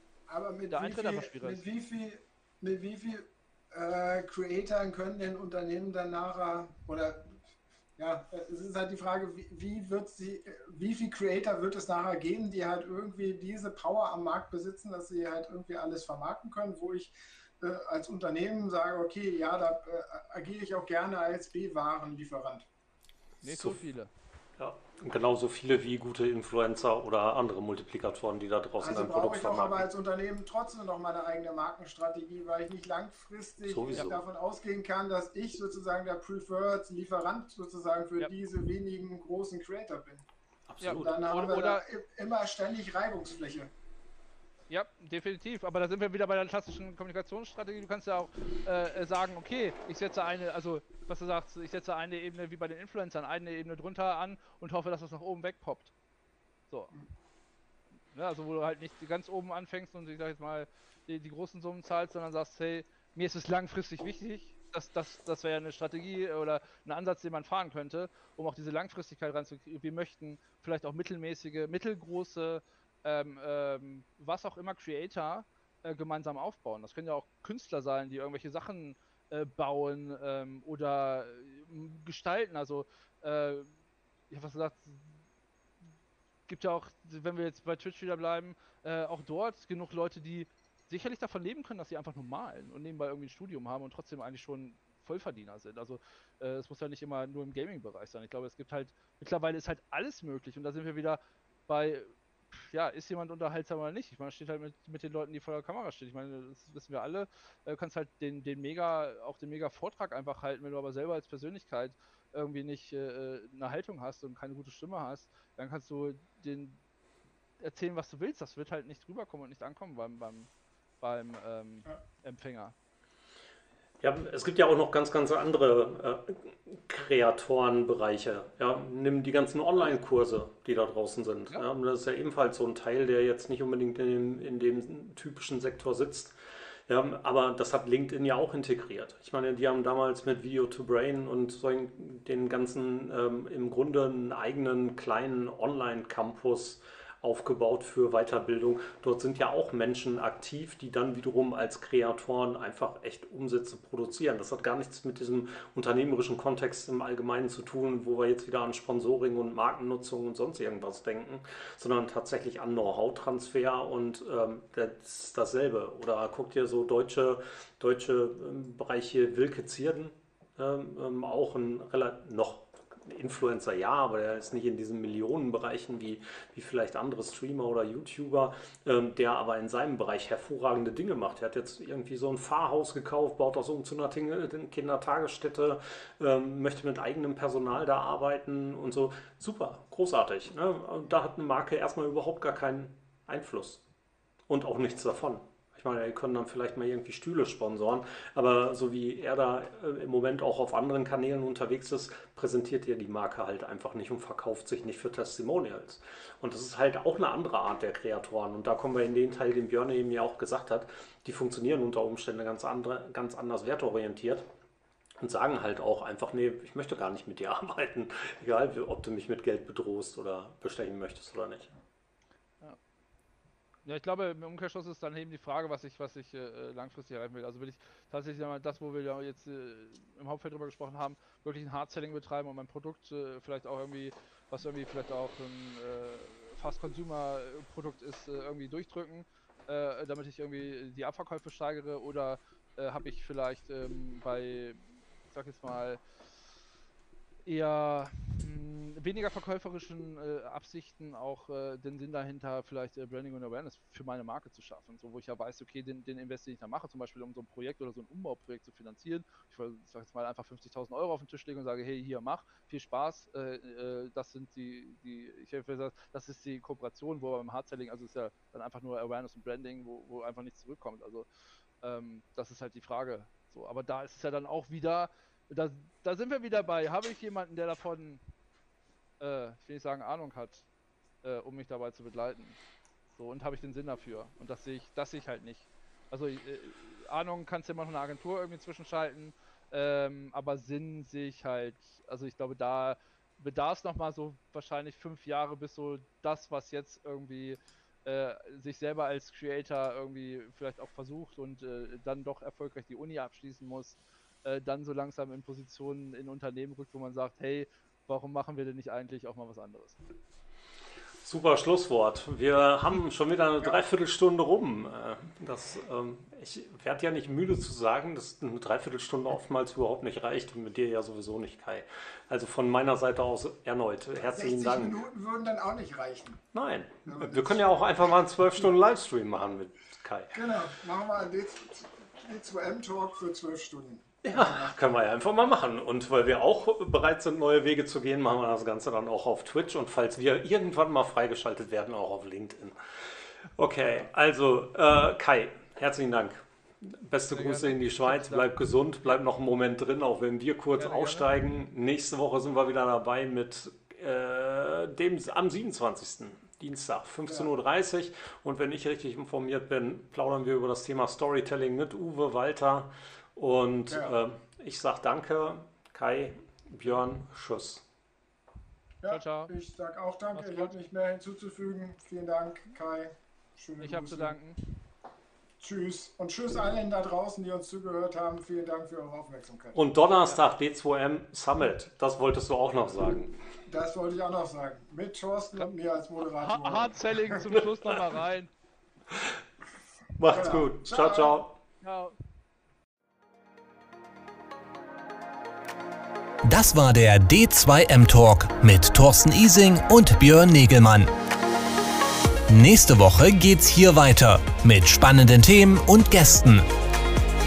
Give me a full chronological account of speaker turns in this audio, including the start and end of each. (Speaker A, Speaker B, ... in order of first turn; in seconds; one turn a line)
Speaker A: 0.3-7.4
Speaker B: 0.7-1.7
Speaker A: 8.0-22.7
Speaker B: 23.4-24.1
Speaker C: 23.4-23.8
Speaker C: 24.6-29.9
Speaker A: 28.8-40.3
Speaker C: 33.7-34.2
Speaker C: 40.7-41.2
Speaker B: 40.8-41.9
Speaker A: 41.0-43.7
Speaker B: 44.7-55.9
Speaker B: 56.7-57.0
Speaker B: 58.1-83.7
Speaker B: 84.3-85.2
Speaker B: 86.5-116.8
Speaker B: 117.6-120.5
Speaker B: 121.0-122.8
Speaker C: 124.0-136.4
Speaker C: 136.9-193.8
Speaker C: 194.5-214.5
Speaker C: 215.2-221.7
Speaker B: 223.8-246.0
Speaker B: 247.5-271.3
Speaker B: 271.8-278.2
Speaker B: 279.2-280.7
Speaker B: 281.2-282.6
Speaker B: 283.1-310.0
Speaker C: 311.2-325.0
Speaker A: 324.3-326.4
Speaker C: 326.5-330.4
Speaker A: 327.1-327.7
Speaker A: 330.3-334.8
Speaker C: 334.2-342.8
Speaker C: 343.6-367.9
Speaker B: 347.3-348.5
Speaker B: 350.8-351.3
Speaker A: 363.9-364.1
Speaker A: 369.0-374.4
Speaker B: 369.1-369.5
Speaker B: 370.3-370.8
Speaker B: 373.8-374.8
Speaker A: 375.6-379.8
Speaker C: 379.8-383.4
Speaker A: 383.7-387.4
Speaker B: 386.3-388.5
Speaker C: 390.2-391.6
Speaker A: 390.3-391.4
Speaker B: 391.8-392.1
Speaker D: 396.4-401.1
Speaker D: 402.5-406.7